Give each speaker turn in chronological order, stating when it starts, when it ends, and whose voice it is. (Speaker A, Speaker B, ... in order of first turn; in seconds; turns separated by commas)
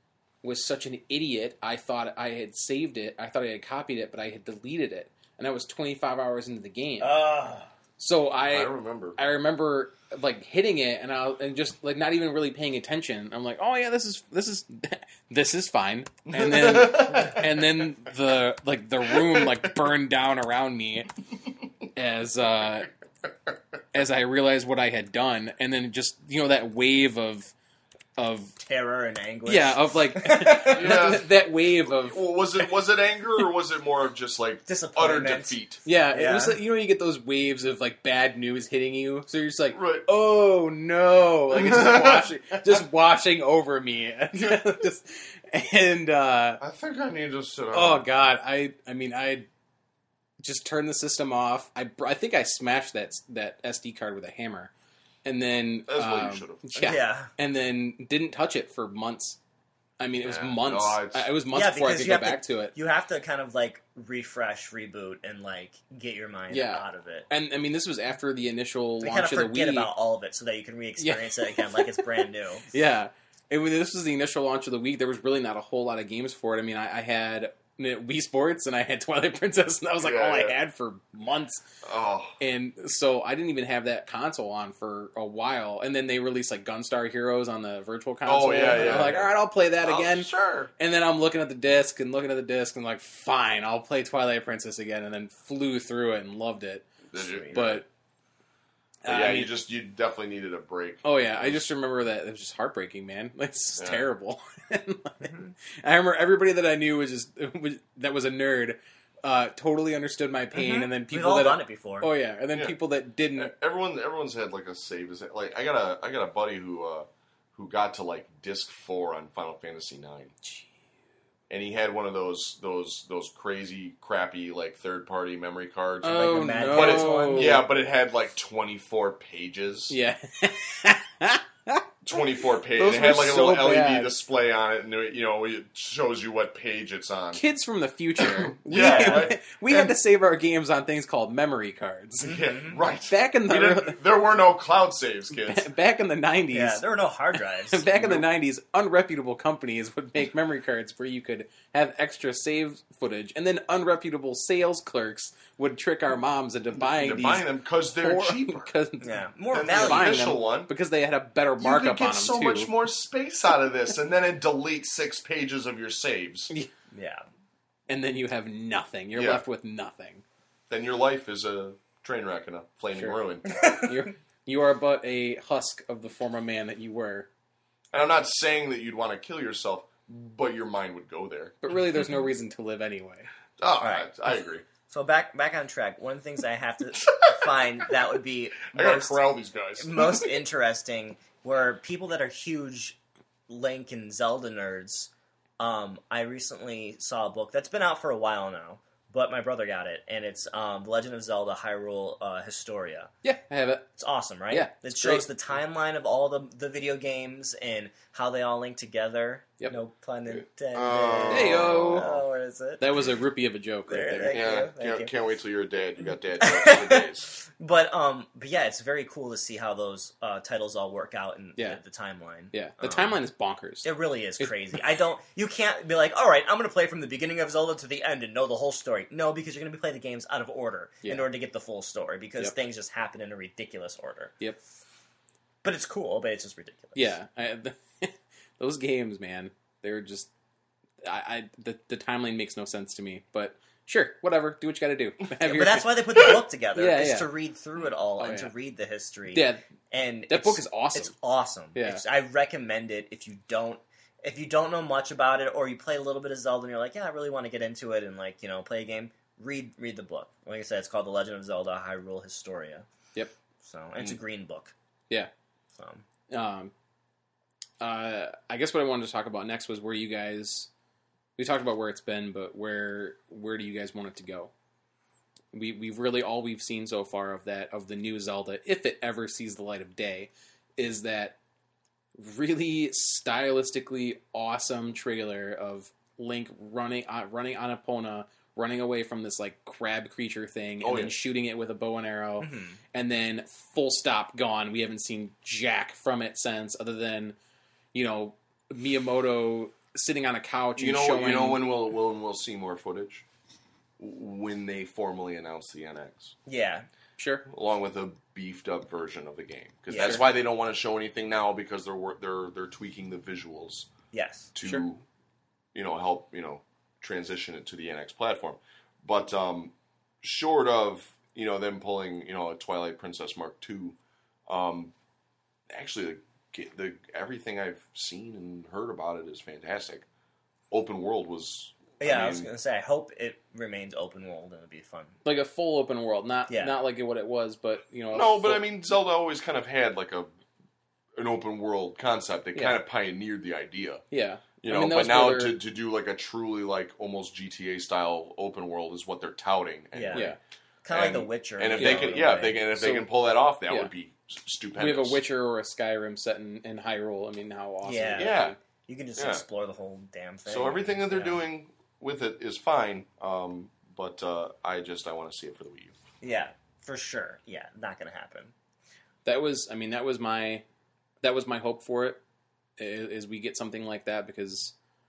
Speaker A: 0.4-7.1, Speaker B: 7.0-7.7, Speaker A: 8.0-21.1, Speaker C: 8.5-9.2, Speaker C: 16.3-17.6, Speaker C: 19.1-19.5, Speaker A: 21.9-22.9, Speaker A: 23.9-27.5, Speaker A: 28.2-28.6, Speaker B: 28.6-31.0, Speaker A: 29.5-32.3, Speaker C: 30.7-35.8, Speaker B: 34.7-36.6, Speaker A: 35.8-46.6, Speaker C: 39.7-40.0, Speaker C: 41.5-42.8, Speaker C: 46.6-48.1, Speaker A: 47.7-49.5, Speaker A: 50.4-54.7, Speaker A: 55.2-59.4, Speaker C: 55.9-57.0, Speaker B: 56.8-57.3, Speaker A: 60.0-62.7, Speaker C: 60.2-61.3, Speaker B: 61.5-67.3, Speaker A: 66.5-69.9, Speaker B: 69.0-72.7, Speaker A: 71.0-81.6, Speaker C: 80.0-80.5, Speaker C: 81.8-82.4, Speaker A: 82.4-96.8, Speaker C: 88.2-90.7, Speaker C: 97.1-97.8, Speaker B: 97.2-97.6, Speaker A: 97.5-97.9, Speaker A: 99.0-99.5, Speaker C: 99.1-101.6, Speaker A: 101.0-113.5, Speaker C: 103.8-104.1, Speaker B: 105.2-105.5, Speaker B: 110.5-112.1, Speaker C: 113.3-120.3, Speaker C: 121.5-129.9, Speaker A: 126.0-127.6, Speaker B: 126.0-127.7, Speaker A: 129.9-131.8, Speaker C: 132.0-137.4, Speaker A: 132.7-134.1, Speaker A: 137.3-142.4, Speaker C: 138.2-139.8, Speaker B: 138.7-139.3, Speaker C: 142.2-145.7, Speaker B: 142.2-142.8, Speaker A: 143.1-144.0, Speaker A: 145.4-162.7, Speaker B: 146.5-147.9, Speaker C: 147.9-148.2, Speaker C: 156.8-158.7, Speaker B: 159.0-160.2, Speaker C: 159.5-160.7, Speaker C: 161.6-166.5, Speaker B: 166.9-167.2, Speaker A: 167.9-170.2, Speaker C: 169.1-169.4, Speaker C: 170.7-173.5, Speaker A: 172.9-177.3, Speaker B: 173.4-173.9, Speaker C: 177.9-181.6, Speaker A: 181.6-183.3, Speaker C: 183.6-184.7, Speaker B: 183.8-184.1, Speaker B: 184.9-189.2, Speaker C: 187.1-187.6, Speaker C: 188.7-190.3, Speaker B: 189.8-203.1, Speaker A: 203.2-203.9, Speaker B: 204.0-212.8, Speaker A: 204.5-205.3, Speaker C: 210.3-212.2, Speaker A: 211.3-212.1, Speaker A: 212.8-214.4, Speaker B: 213.9-215.1, Speaker C: 214.3-217.3, Speaker B: 216.4-223.2, Speaker A: 222.5-224.6, Speaker B: 223.8-234.3, Speaker B: 235.6-237.2, Speaker A: 236.9-240.3, Speaker A: 241.0-247.3, Speaker B: 245.4-262.9, Speaker A: 248.2-248.5, Speaker A: 249.3-249.6, Speaker A: 250.3-251.1, Speaker A: 251.7-252.0, Speaker B: 263.6-264.7, Speaker B: 265.8-266.0, Speaker A: 266.3-266.7, Speaker A: 267.8-270.7, Speaker A: 271.4-274.5, Speaker A: 275.5-281.4, Speaker A: 282.2-297.4, Speaker C: 290.8-291.1, Speaker B: 292.4-292.8, Speaker A: 297.9-301.7, Speaker C: 300.8-303.2, Speaker C: 304.0-306.4, Speaker B: 306.4-306.9, Speaker A: 307.2-307.4, Speaker C: 307.5-313.9, Speaker B: 309.9-310.2, Speaker B: 314.1-314.5, Speaker C: 314.5-315.0, Speaker C: 315.7-324.9, Speaker C: 325.7-330.1, Speaker C: 330.7-332.5, Speaker B: 332.0-335.2, Speaker A: 335.2-338.6, Speaker B: 336.5-336.8, Speaker C: 338.1-340.3, Speaker C: 341.1-344.0, Speaker A: 342.5-342.8, Speaker A: 344.1-345.6, Speaker C: 344.6-350.3, Speaker B: 349.9-350.3, Speaker A: 350.1-350.4, Speaker B: 350.8-352.7, Speaker C: 350.9-355.2, Speaker A: 351.8-353.1, Speaker A: 354.8-358.6, Speaker B: 357.8-361.4, Speaker C: 358.2-358.5, Speaker C: 359.2-359.4, Speaker C: 360.4-365.9, Speaker B: 366.2-368.5, Speaker A: 369.2-370.6, Speaker A: 371.2-372.2, Speaker A: 372.8-374.7